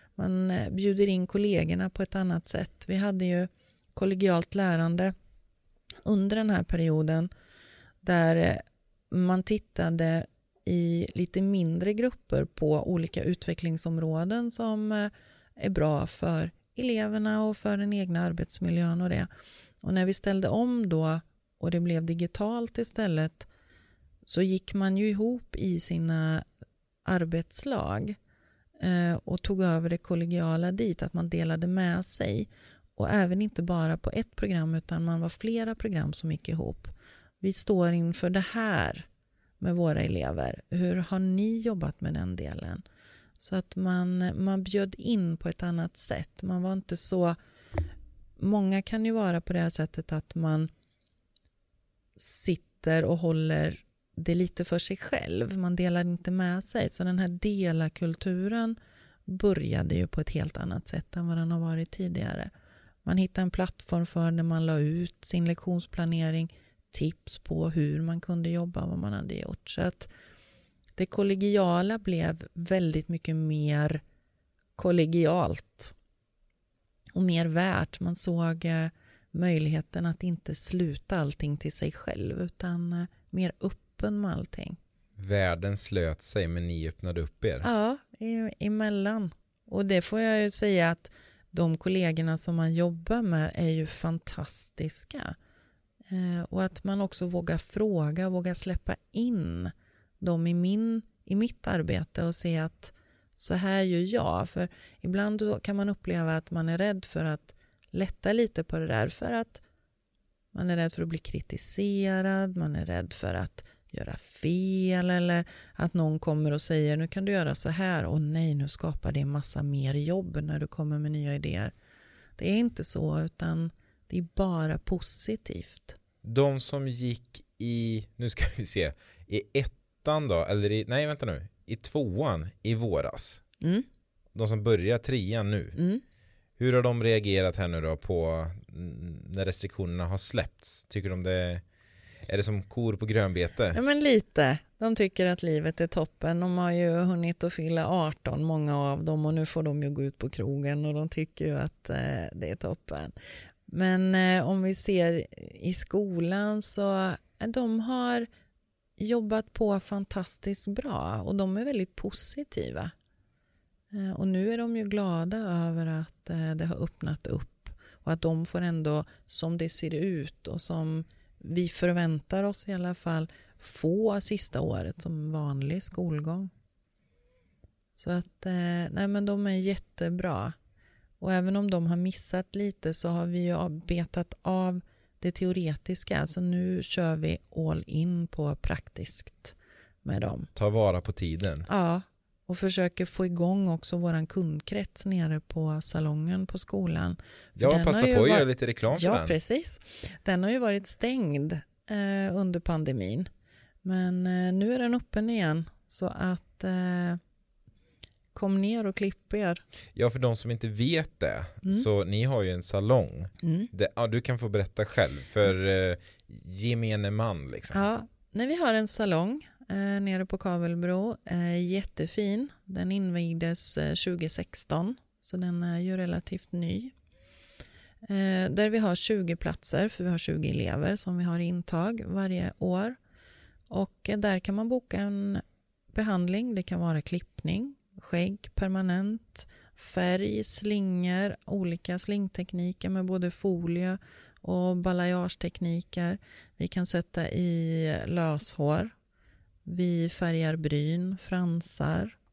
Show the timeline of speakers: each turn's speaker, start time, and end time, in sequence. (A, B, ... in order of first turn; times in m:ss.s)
0:00.2-0:05.1 A
0:06.0-0:07.3 A
0:08.0-0:19.3 A
0:19.8-0:23.5 A
0:24.2-0:26.4 A
0:27.0-0:28.2 A
0:28.8-0:39.1 A
0:39.6-0:42.8 A
0:43.4-0:47.4 A
0:48.4-0:50.7 A
0:52.2-1:02.5 A
1:03.0-1:10.1 A
1:11.0-1:14.0 A
1:14.8-1:15.9 A
1:17.1-1:24.8 A
1:25.2-1:27.6 B
1:27.6-1:35.3 A
1:36.1-1:49.6 A
1:50.5-2:01.7 A
2:02.4-2:06.0 A
2:06.2-2:13.4 B
2:13.6-2:13.8 A
2:14.3-2:15.8 B
2:15.8-2:16.0 A
2:16.6-2:21.6 B
2:22.3-2:23.8 B
2:23.7-2:33.1 A
2:33.7-2:38.3 A
2:39.0-2:42.9 A
2:43.9-2:56.5 A
2:58.0-3:00.5 A
3:01.2-3:10.5 A
3:10.5-3:11.7 B
3:11.6-3:23.3 A
3:17.6-3:19.4 B
3:23.8-3:27.2 A
3:28.3-3:29.6 A
3:29.9-3:37.8 B
3:33.4-3:33.7 A
3:37.7-3:46.9 A
3:48.0-3:53.0 A
3:53.7-4:08.9 A
4:09.7-4:12.2 A